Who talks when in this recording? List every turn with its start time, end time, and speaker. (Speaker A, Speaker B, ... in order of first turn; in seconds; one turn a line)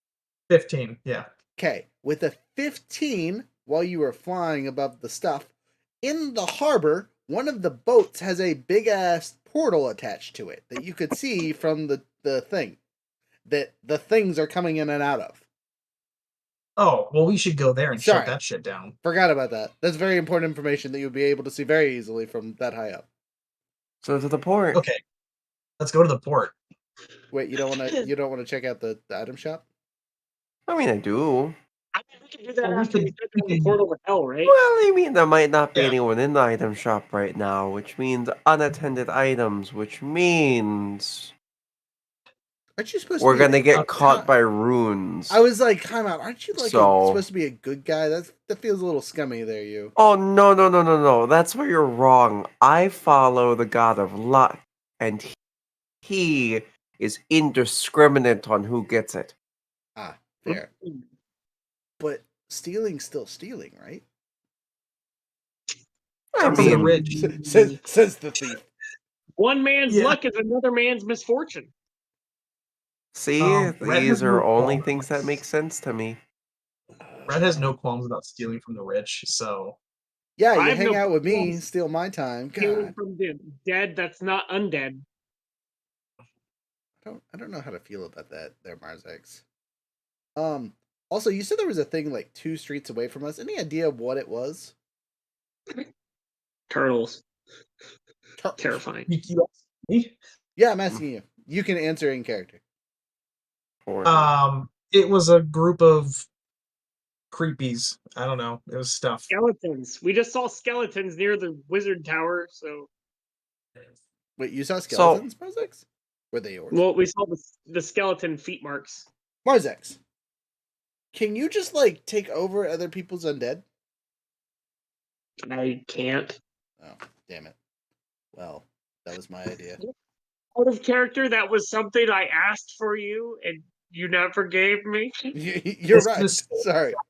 Speaker A: 0.5-1.3
Speaker B: 1.6-5.5
Speaker B: 6.0-12.8
Speaker B: 13.5-15.4
Speaker A: 16.8-18.9
Speaker B: 18.0-18.4
Speaker B: 19.0-23.1
Speaker C: 24.0-24.8
Speaker A: 24.7-25.0
Speaker A: 25.8-26.6
Speaker B: 27.3-29.6
Speaker C: 30.7-31.6
Speaker D: 31.9-34.5
Speaker A: 32.6-33.8
Speaker C: 34.5-41.3
Speaker B: 42.8-44.3
Speaker C: 43.2-45.4
Speaker A: 43.7-44.1
Speaker B: 45.3-49.9
Speaker C: 46.6-47.2
Speaker C: 50.0-55.4
Speaker C: 56.0-59.3
Speaker B: 60.0-60.7
Speaker D: 60.5-61.0
Speaker B: 62.0-64.0
Speaker C: 66.3-67.0
Speaker A: 66.4-67.3
Speaker B: 66.5-68.7
Speaker D: 66.6-67.8
Speaker D: 69.4-71.7
Speaker A: 69.9-70.2
Speaker C: 73.1-76.2
Speaker A: 73.4-75.4
Speaker B: 77.0-77.7
Speaker A: 77.3-79.8
Speaker B: 80.4-82.9
Speaker D: 80.5-81.6
Speaker D: 82.6-85.1
Speaker B: 87.0-89.4
Speaker B: 90.4-94.7
Speaker D: 96.7-97.2
Speaker B: 98.4-98.8
Speaker D: 98.6-99.1
Speaker A: 99.1-100.2
Speaker B: 100.6-102.6
Speaker C: 103.9-104.3
Speaker A: 104.0-106.3
Speaker A: 107.3-109.3
Speaker D: 109.3-112.9
Speaker B: 114.4-116.8
Speaker C: 114.9-115.2
Speaker D: 116.7-119.1
Speaker B: 119.5-120.0
Speaker B: 121.1-123.6
Speaker D: 125.5-126.4
Speaker B: 126.8-127.6
Speaker B: 128.3-129.8
Speaker D: 130.6-135.1
Speaker B: 135.3-137.0
Speaker A: 135.9-136.7